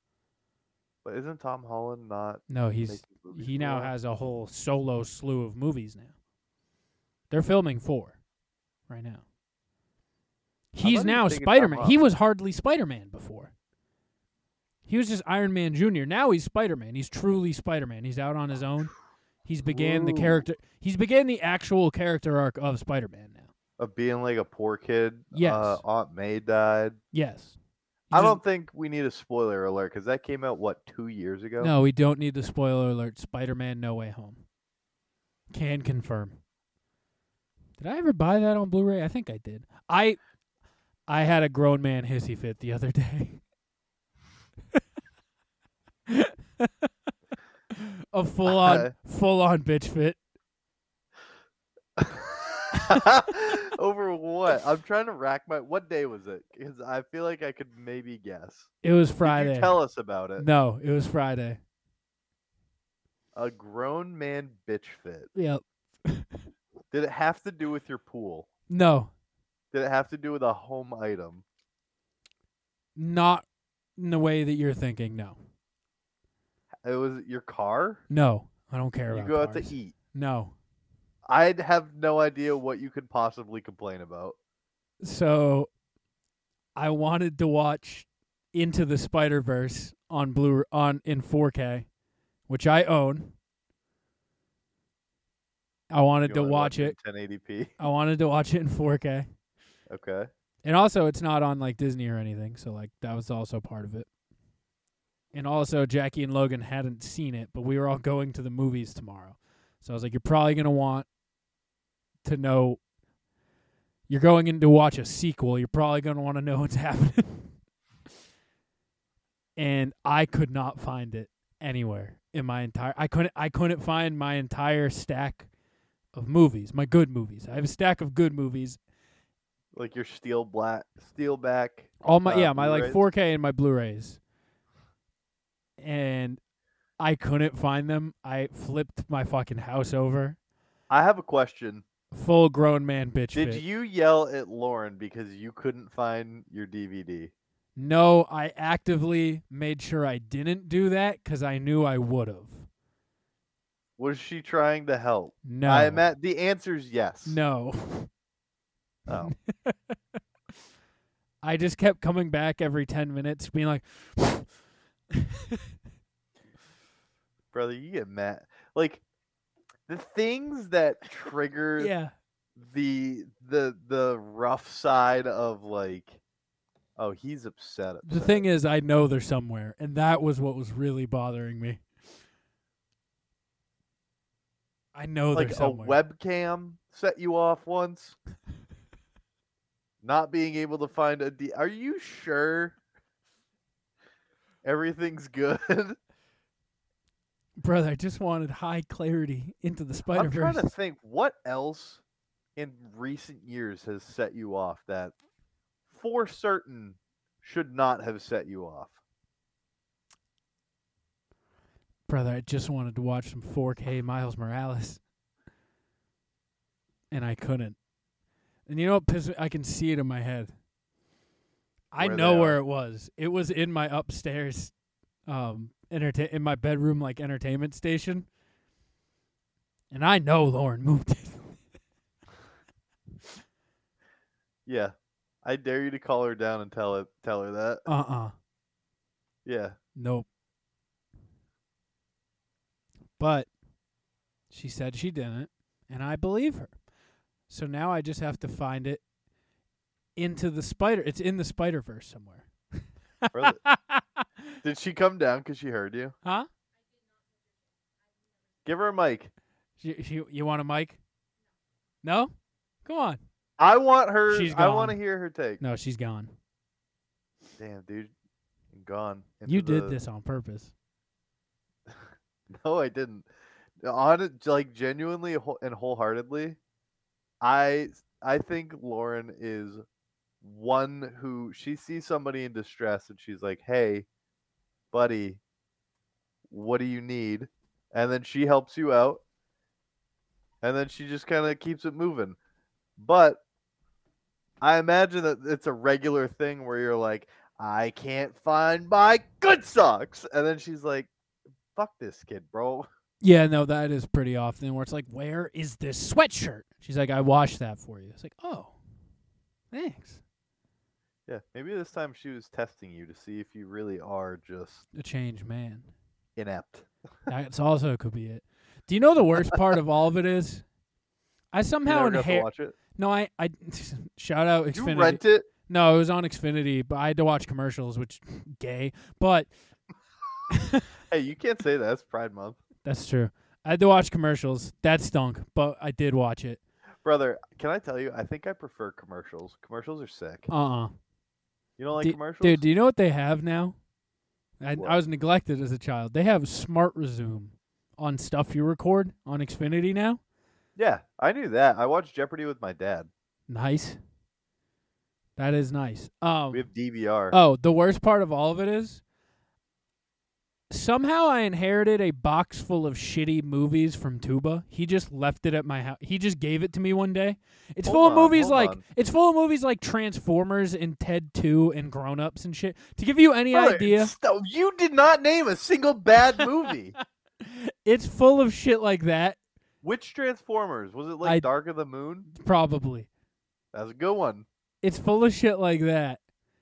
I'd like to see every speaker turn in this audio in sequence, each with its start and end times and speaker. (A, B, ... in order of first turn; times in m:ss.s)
0:01.0-0:03.9 A
0:02.5-0:06.1 B
0:07.3-0:08.2 B
0:08.9-0:09.2 B
0:10.7-0:13.5 B
0:10.8-0:12.0 A
0:14.8-0:18.9 B
0:19.4-0:23.5 B
0:19.7-0:20.4 A
0:23.8-0:27.0 A
0:25.3-0:25.8 B
0:27.1-0:27.6 B
0:28.1-0:28.4 B
0:28.1-0:31.7 A
0:31.6-0:34.4 B
0:35.5-0:36.4 B
0:37.8-0:40.2 B
0:41.1-0:43.4 B
0:46.1-0:46.9 B
0:47.7-0:50.2 B
0:48.4-0:48.9 A
0:52.0-0:58.7 A
0:52.7-0:53.0 B
0:58.8-0:59.8 B
0:59.2-1:00.5 A
1:00.4-1:01.6 B
1:03.3-1:05.3 A
1:05.3-1:06.4 B
1:06.9-1:08.5 A
1:08.7-1:09.1 B
1:09.7-1:11.4 A
1:13.0-1:13.4 B
1:14.0-1:15.4 B
1:16.8-1:18.0 A
1:18.1-1:20.5 B
1:19.1-1:19.9 A
1:21.2-1:24.4 A
1:25.0-1:25.7 B
1:26.8-1:31.9 B
1:32.5-1:33.3 B
1:35.9-1:37.0 B
1:36.2-1:37.7 A
1:37.8-1:39.3 B
1:39.9-1:40.3 A
1:40.6-1:44.1 B
1:45.3-1:51.1 B
1:52.2-1:52.8 B
1:54.1-1:57.5 B
1:59.6-2:05.5 B
2:06.1-2:08.8 B
2:09.7-2:13.0 A
2:12.0-2:14.2 B
2:15.8-2:16.4 B
2:17.0-2:20.4 B
2:20.9-2:21.8 A
2:22.1-2:23.6 B
2:23.3-2:27.3 A
2:27.8-2:32.7 B
2:34.0-2:37.4 A
2:35.4-2:36.0 B
2:37.2-2:38.1 B
2:39.1-2:39.3 A
2:39.1-2:40.0 B
2:41.4-2:44.5 B
2:47.5-2:49.0 A
2:49.9-2:51.9 A
2:51.8-2:52.1 B
2:52.6-2:56.2 A
2:57.0-2:58.4 A
2:58.0-3:01.8 B
3:04.9-3:06.0 B
3:05.3-3:08.2 A
3:10.0-3:12.8 A
3:14.6-3:16.0 A
3:17.6-3:20.7 B
3:20.1-3:22.0 A
3:22.6-3:25.1 A
3:25.9-3:29.0 A
3:32.1-3:35.0 B
3:37.1-3:37.8 B
3:38.7-3:40.5 B
3:41.9-3:44.7 B
3:42.0-3:42.6 A
3:45.2-3:48.3 B
3:49.9-3:51.6 B
3:54.6-3:57.8 A
3:57.8-3:58.3 B
3:59.4-3:59.8 A
4:00.0-4:00.2 B
4:03.2-4:03.5 B
4:04.5-4:06.7 B
4:07.5-4:09.0 B
4:10.2-4:14.4 B
4:13.3-4:13.6 A
4:14.6-4:16.1 A
4:18.6-4:19.3 A
4:19.8-4:21.0 B
4:22.0-4:22.3 B
4:22.8-4:23.2 B
4:23.6-4:25.6 A
4:24.3-4:25.0 B
4:25.6-4:26.3 B
4:27.6-4:28.1 A
4:28.7-4:30.0 A
4:29.4-4:30.7 B
4:32.5-4:33.3 A
4:33.8-4:36.6 A
4:37.4-4:39.8 A
4:40.4-4:44.0 A
4:44.9-4:45.4 A
4:46.5-4:49.2 A
4:50.6-4:52.4 A
4:53.0-4:53.4 A
4:54.6-5:01.1 A
5:01.7-5:02.9 A
5:03.2-5:08.8 B
5:09.7-5:10.2 B
5:11.3-5:14.8 A
5:14.9-5:15.9 B
5:16.4-5:16.9 A
5:17.3-5:20.6 B
5:21.5-5:29.5 B
5:21.8-5:22.8 A
5:24.7-5:25.5 A
5:30.5-5:30.8 B
5:31.1-5:32.6 A
5:32.8-5:36.6 B
5:37.0-5:40.5 A
5:40.5-5:40.9 B
5:41.8-5:42.6 A
5:42.0-5:43.8 B
5:44.6-5:50.2 B
5:50.8-5:53.1 A
5:53.5-5:54.0 B
5:55.4-5:56.6 B
5:56.5-5:57.4 A
5:57.3-5:59.0 B
6:00.7-6:14.1 B
6:07.8-6:08.8 A
6:13.5-6:17.0 A
6:17.4-6:19.4 B
6:19.8-6:22.3 A
6:21.2-6:21.5 B
6:22.3-6:23.1 B
6:23.7-6:24.4 A
6:24.8-6:26.2 B